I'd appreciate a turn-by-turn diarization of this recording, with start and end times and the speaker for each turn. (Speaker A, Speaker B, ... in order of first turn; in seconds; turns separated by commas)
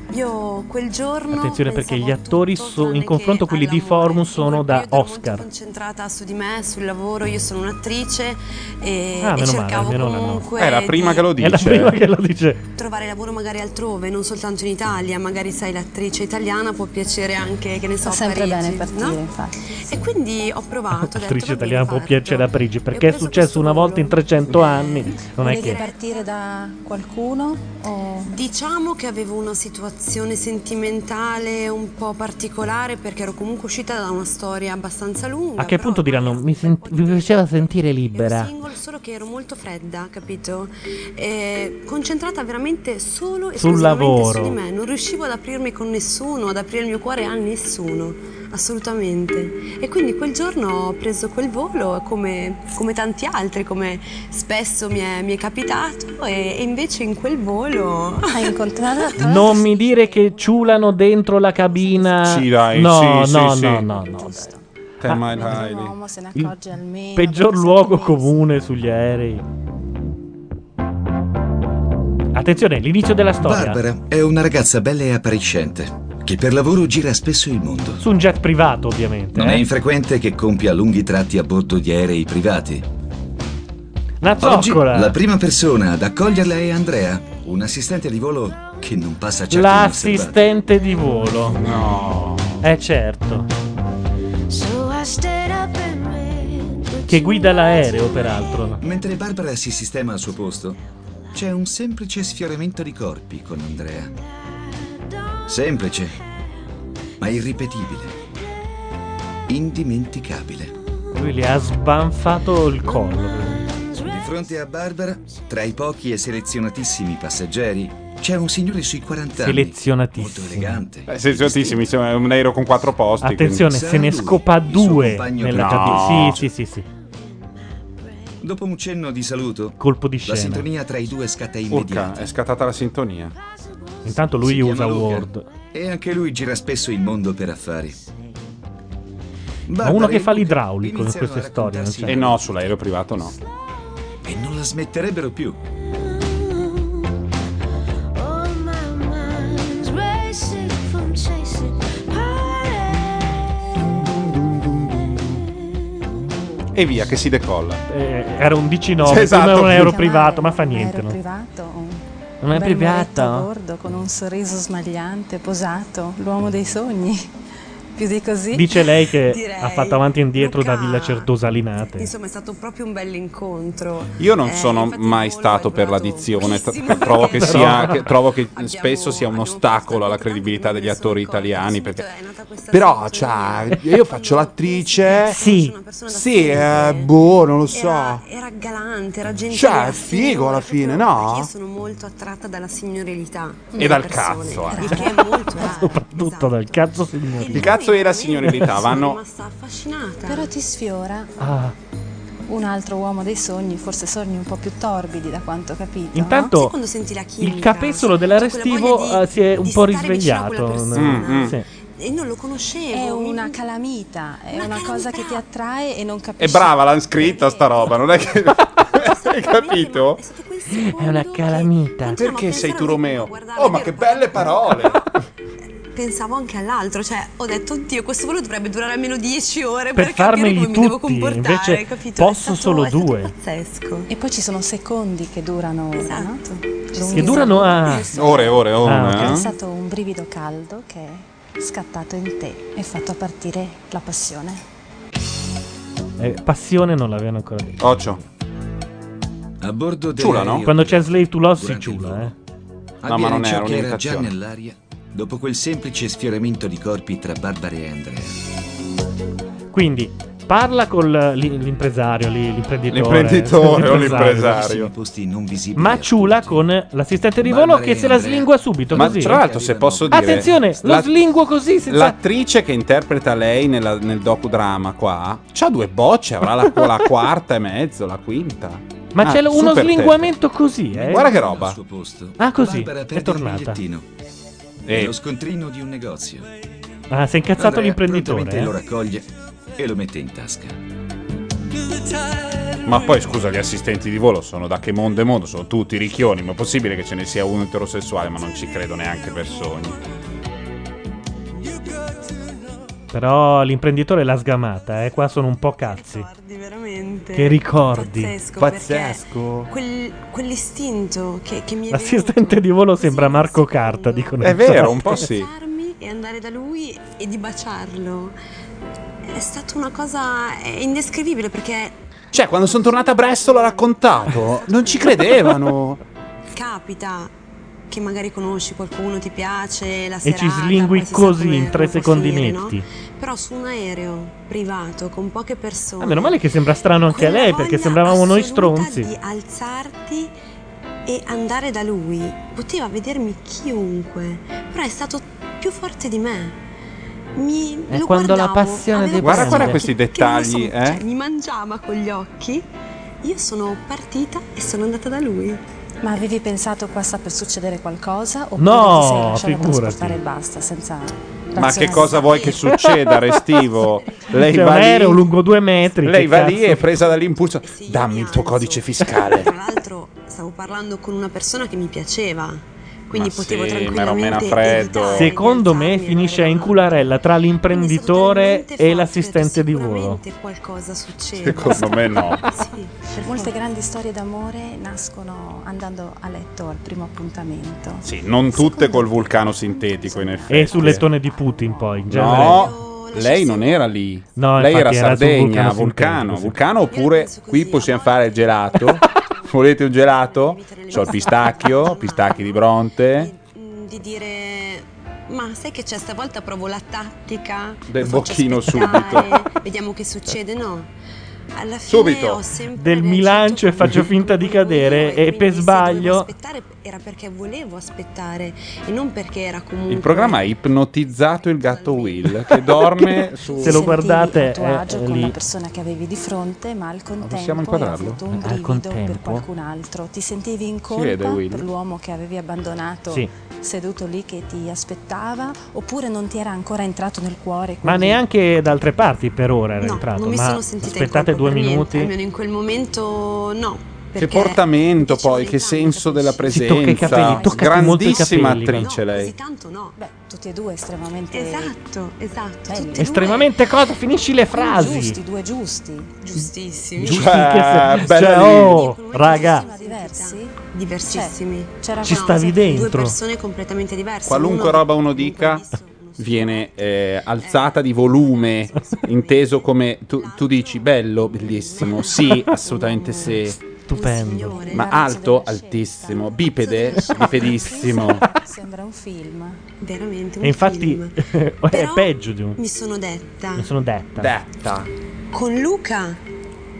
Speaker A: 0.1-11.3, Speaker B: 1.3-5.5, Speaker B: 9.2-10.5, Speaker C: 10.6-12.0, Speaker B: 11.4-12.6, Speaker A: 12.8-19.2, Speaker D: 18.0-20.0, Speaker A: 19.8-26.3, Speaker B: 20.9-25.8, Speaker D: 25.4-28.4, Speaker A: 28.3-59.7, Speaker B: 35.6-38.5, Speaker B: 43.5-44.6, Speaker D: 58.3-60.9, Speaker B: 59.2-64.5, Speaker D: 61.6-62.2, Speaker C: 62.2-63.8, Speaker D: 63.8-68.5, Speaker C: 65.0-66.0, Speaker B: 65.1-65.6, Speaker B: 67.2-69.4, Speaker B: 72.3-73.8, Speaker E: 73.4-78.0, Speaker B: 78.0-79.7, Speaker E: 79.3-82.9, Speaker B: 84.2-85.2, Speaker E: 84.4-90.5, Speaker B: 89.5-91.6, Speaker C: 91.5-92.6, Speaker B: 92.6-93.5, Speaker B: 97.1-98.8, Speaker E: 98.8-100.8, Speaker E: 101.3-104.2, Speaker E: 105.5-106.2, Speaker E: 107.2-108.2, Speaker E: 109.5-110.8, Speaker B: 111.1-113.8, Speaker E: 114.0-121.8, Speaker B: 119.4-120.8, Speaker C: 121.1-123.8, Speaker B: 123.2-126.9, Speaker E: 123.6-126.5, Speaker C: 125.5-126.5, Speaker E: 128.4-132.3, Speaker B: 129.8-130.7, Speaker C: 131.7-133.4, Speaker B: 134.0-135.5, Speaker E: 134.4-138.0, Speaker E: 139.7-142.5, Speaker B: 139.8-142.2, Speaker C: 142.1-143.4, Speaker E: 144.2-145.6, Speaker C: 153.8-155.5, Speaker C: 156.7-157.8, Speaker B: 157.9-161.2, Speaker C: 159.0-159.9, Speaker D: 159.5-167.3, Speaker B: 162.4-163.5, Speaker D: 167.9-168.8, Speaker B: 168.5-172.1, Speaker A: 169.1-171.3, Speaker A: 171.9-187.2, Speaker C: 174.2-182.0, Speaker B: 177.3-178.0, Speaker C: 182.7-185.4, Speaker B: 185.3-185.8, Speaker C: 186.1-188.2, Speaker A: 187.7-200.5, Speaker C: 189.5-191.5, Speaker C: 193.8-195.0, Speaker D: 194.7-195.8, Speaker B: 195.5-197.7, Speaker C: 197.5-199.2, Speaker D: 200.2-201.3, Speaker B: 201.4-201.7, Speaker D: 202.5-206.5, Speaker B: 206.1-206.8, Speaker A: 206.5-213.6, Speaker B: 207.4-211.7, Speaker C: 210.9-211.5, Speaker D: 212.9-217.8, Speaker A: 214.5-215.4, Speaker C: 216.4-220.2, Speaker A: 217.3-218.0, Speaker A: 218.7-225.1, Speaker B: 220.7-222.2, Speaker C: 222.1-225.1, Speaker A: 225.9-234.1, Speaker B: 229.9-233.3, Speaker D: 234.1-244.6, Speaker A: 236.0-236.4, Speaker A: 236.9-238.0, Speaker B: 237.1-238.1, Speaker C: 238.1-239.5, Speaker B: 238.8-239.4, Speaker B: 246.2-248.2, Speaker C: 247.8-248.2, Speaker E: 249.6-252.3, Speaker C: 250.2-250.7, Speaker B: 250.6-252.3, Speaker E: 253.0-258.4, Speaker C: 253.1-254.3, Speaker B: 259.7-264.6, Speaker C: 262.9-264.9, Speaker E: 263.7-266.7, Speaker B: 265.8-269.4, Speaker E: 267.4-270.6, Speaker C: 268.9-271.1, Speaker B: 270.1-272.2, Speaker C: 271.9-280.4, Speaker B: 279.1-281.3, Speaker E: 280.9-284.1, Speaker C: 281.1-281.8, Speaker B: 282.4-283.8, Speaker C: 284.9-285.2, Speaker E: 284.9-286.5, Speaker B: 287.1-288.7, Speaker E: 287.6-290.8, Speaker C: 292.8-300.0, Speaker B: 303.1-306.3, Speaker A: 305.8-318.4, Speaker B: 307.4-308.4, Speaker C: 308.6-309.7, Speaker B: 311.9-315.2, Speaker C: 314.4-315.5, Speaker A: 319.2-325.6, Speaker C: 322.3-326.0, Speaker A: 326.5-327.3, Speaker A: 327.9-336.4, Speaker B: 330.2-332.8, Speaker B: 336.0-339.1, Speaker A: 337.1-340.3, Speaker A: 341.1-346.6, Speaker A: 347.4-352.7, Speaker B: 347.9-349.8, Speaker C: 349.2-351.0, Speaker A: 353.2-355.6, Speaker D: 356.0-362.6, Speaker B: 358.6-360.2, Speaker C: 361.6-365.3, Speaker A: 361.8-362.9, Speaker A: 363.8-364.3, Speaker B: 364.3-366.9, Speaker C: 366.0-369.5, Speaker A: 367.6-383.6, Speaker C: 373.1-375.3, Speaker B: 375.1-380.2, Speaker C: 381.4-382.4, Speaker D: 383.2-392.1, Speaker C: 388.0-391.1, Speaker B: 390.5-392.7, Speaker C: 392.1-403.3, Speaker A: 392.2-393.9, Speaker B: 394.4-396.6, Speaker A: 396.9-410.9, Speaker C: 407.9-409.4, Speaker A: 411.5-420.4, Speaker C: 411.9-412.4, Speaker B: 412.8-416.3, Speaker C: 419.9-423.9, Speaker A: 421.4-422.6, Speaker D: 423.6-438.2, Speaker B: 423.6-425.4, Speaker C: 427.2-428.2, Speaker B: 428.3-429.5, Speaker C: 430.9-431.7, Speaker B: 437.8-442.1, Speaker A: 439.8-447.2, Speaker C: 444.2-449.3, Speaker B: 446.5-448.9, Speaker D: 447.1-448.0, Speaker A: 448.0-450.0, Speaker D: 450.0-451.8, Speaker A: 451.3-453.6, Speaker D: 452.7-453.4, Speaker B: 452.9-455.2, Speaker D: 454.5-456.4, Speaker A: 456.2-457.4, Speaker B: 457.0-459.7, Speaker C: 457.0-458.8, Speaker A: 458.0-475.0, Speaker D: 459.2-462.7, Speaker B: 462.0-463.2, Speaker C: 464.3-465.7, Speaker C: 466.2-473.6, Speaker B: 473.9-474.7, Speaker D: 474.5-479.6, Speaker C: 474.7-478.3, Speaker A: 476.6-478.2, Speaker A: 479.8-483.7, Speaker B: 480.4-482.6, Speaker B: 483.6-484.4, Speaker C: 484.2-484.9, Speaker A: 485.3-486.2